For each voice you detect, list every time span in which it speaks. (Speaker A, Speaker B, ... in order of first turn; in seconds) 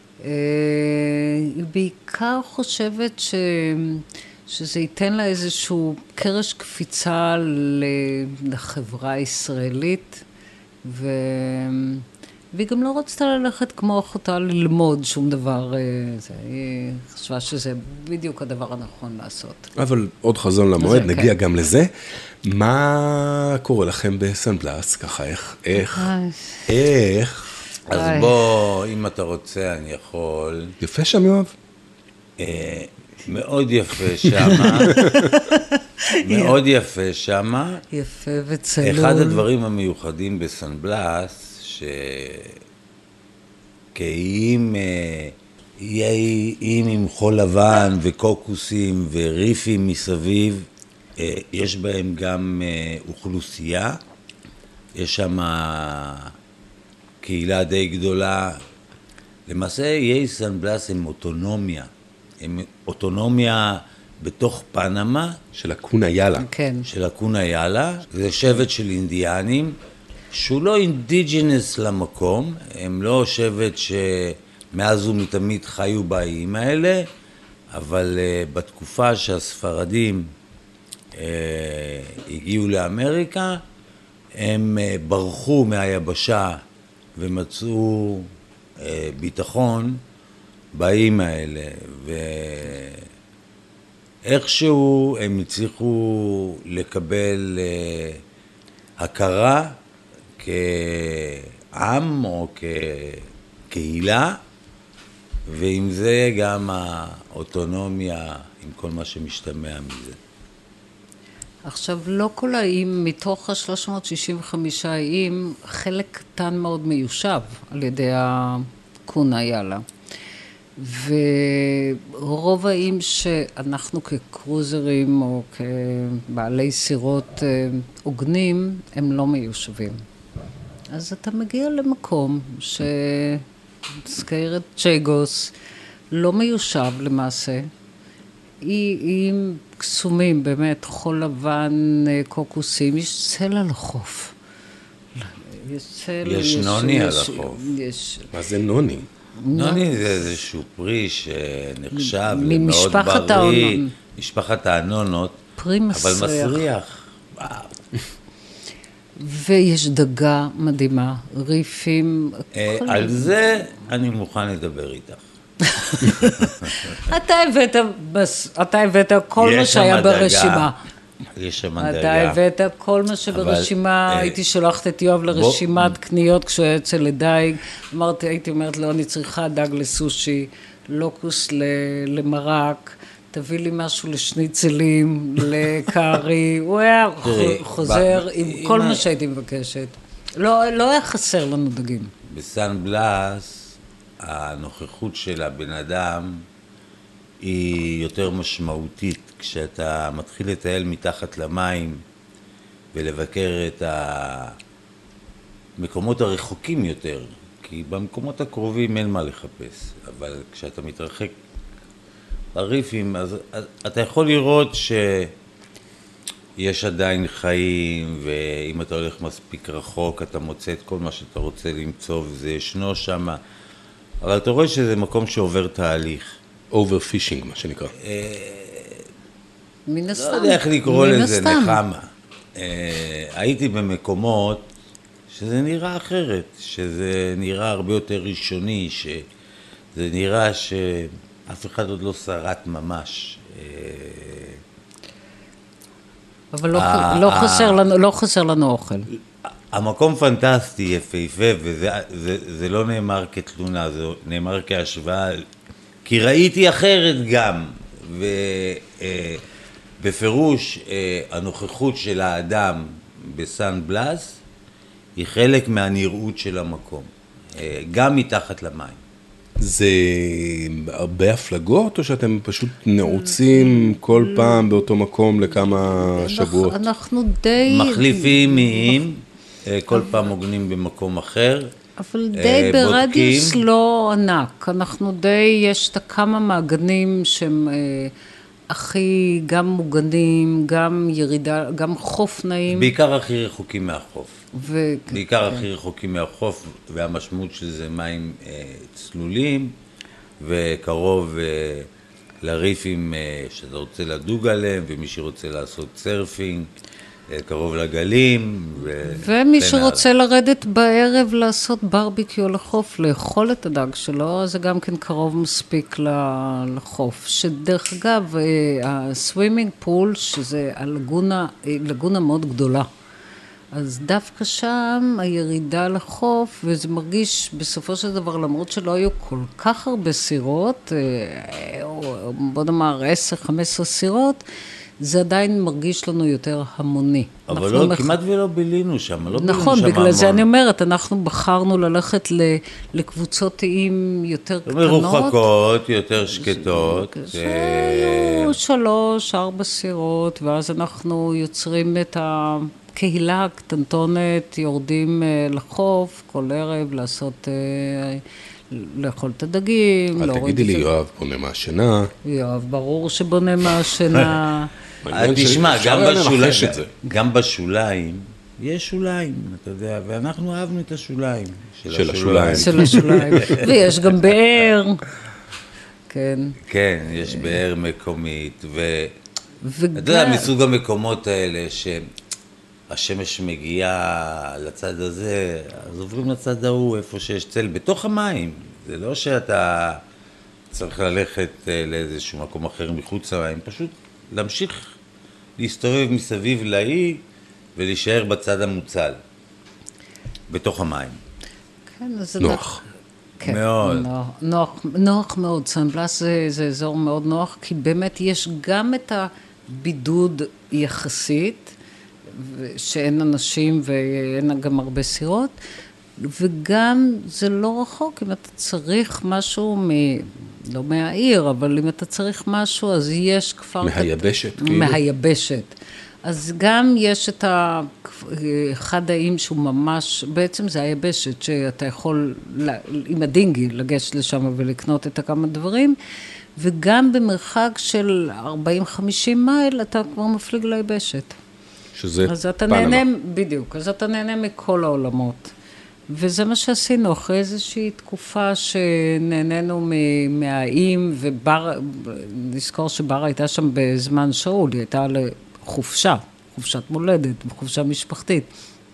Speaker A: 0.2-10.2, 10.8-19.7, 20.8-21.3, 25.8-26.7, 27.9-28.4, 34.4-36.5, 37.9-39.4, 66.4-66.9, 111.7-119.8, 120.8-130.0, 130.9-133.4, 134.0-135.5, 136.1-137.7, 138.6-144.3, 145.2-148.3, 149.4-150.0, 151.9-153.9, 155.6-156.7, 159.2-163.3, 165.7-170.8, 171.8-192.1, 229.9-231.8, 246.5-249.1, 273.0-274.8, 275.8-279.0, 279.9-280.2, 282.0-288.1, 288.7-292.9, 294.5-295.6, 309.1-322.9, 323.7-334.4, 335.0-338.1, 339.3-345.5, 346.3-360.9, 362.2-364.7, 372.5-375.0, 376.1-376.6, 377.3-377.6, 379.6-380.5, 401.9-402.8, 403.4-411.7, 412.3-415.6, 416.2-436.0, 436.6-441.4, 442.2-445.5, 446.1-458.5
Speaker B: 19.8-26.1, 26.7-27.5, 30.8-31.5, 35.0-35.3, 65.5-66.5, 148.3-149.1, 226.7-227.9, 269.6-276.8, 360.2-362.1, 365.0-366.9, 371.9-373.6, 402.4-402.8, 423.8-425.0, 441.9-443.0
Speaker C: 27.9-30.8, 32.4-35.0, 36.2-37.8, 38.8-42.6, 43.9-54.0, 54.9-56.3, 57.2-58.6, 59.5-61.9, 62.4-65.4, 66.9-69.8, 70.3-77.1, 77.7-80.3, 81.1-83.6, 84.4-86.6, 87.2-90.0, 90.7-93.0, 94.2-98.2, 99.0-99.8, 100.4-104.4, 105.5-110.2, 146.2-147.7, 149.5-157.7, 162.5-165.2, 166.4-167.0, 169.4-170.7, 171.3-172.4, 173.3-174.4, 175.3-176.0, 187.2-189.1, 192.3-196.4, 197.4-202.0, 202.9-204.6, 205.8-211.3, 212.5-215.3, 216.6-223.4, 224.2-226.4, 228.0-229.1, 230.2-234.7, 235.3-239.3, 239.9-244.6, 246.7-247.8, 249.7-255.4, 256.0-259.4, 260.0-264.4, 265.2-269.0, 277.6-281.7, 282.3-283.6, 292.7-294.4, 295.1-299.7, 300.4-301.9, 302.4-306.7, 307.3-310.1, 337.5-340.4, 344.7-348.5, 365.1-374.2, 376.6-379.1, 379.9-382.1, 382.9-390.0, 390.7-394.9, 395.6-397.2, 397.8-399.2, 400.5-401.2, 403.4-404.1